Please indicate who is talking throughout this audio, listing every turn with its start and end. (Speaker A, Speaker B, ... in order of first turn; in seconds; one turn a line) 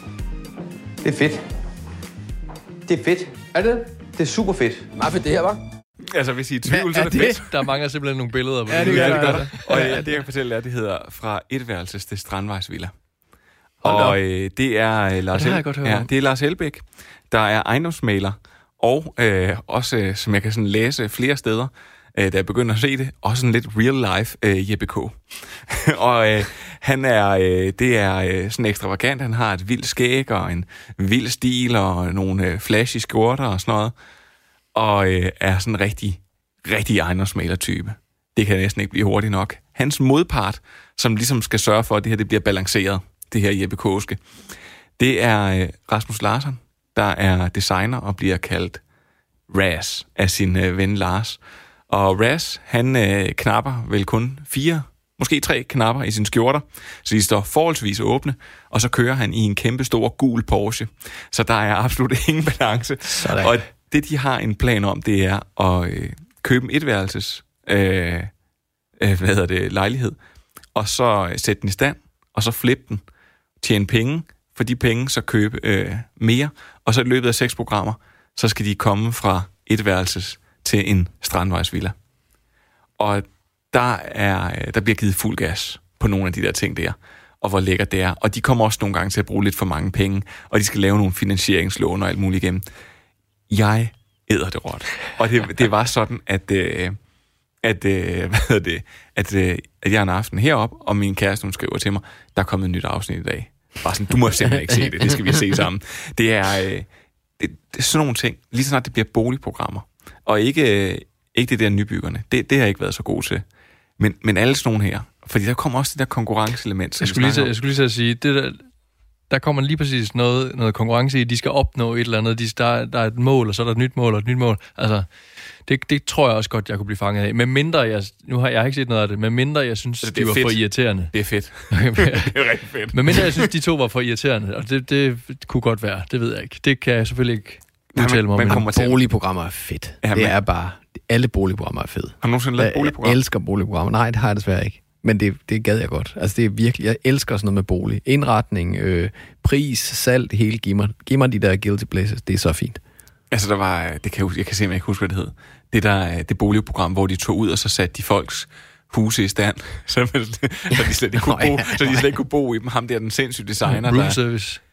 Speaker A: 3.5-5.6
Speaker B: 6.1-7.6
Speaker C: 6.7-7.3
Speaker D: 7.0-9.6
Speaker C: 8.7-10.1
Speaker B: 8.8-12.9
Speaker D: 13.8-14.2
Speaker B: 13.8-33.9
Speaker D: 15.3-16.1
Speaker B: 34.7-44.2
Speaker B: 45.0-48.8
Speaker B: 49.5-68.3
Speaker D: 63.1-63.5
Speaker B: 69.0-70.1
Speaker B: 70.7-73.0
Speaker B: 73.6-81.9
Speaker B: 83.0-92.6
Speaker B: 93.5-97.0
Speaker B: 97.6-106.9
Speaker B: 107.4-113.4
Speaker B: 114.0-117.5
Speaker D: 117.0-118.6
Speaker D: 119.3-125.1
Speaker D: 125.7-131.1
Speaker B: 130.0-133.4
Speaker D: 131.7-132.3
Speaker D: 132.9-138.6
Speaker B: 137.9-139.0
Speaker C: 138.5-152.8
Speaker B: 140.0-140.3
Speaker B: 142.2-143.2
Speaker B: 153.3-164.2
Speaker C: 161.2-162.1
Speaker D: 163.7-164.6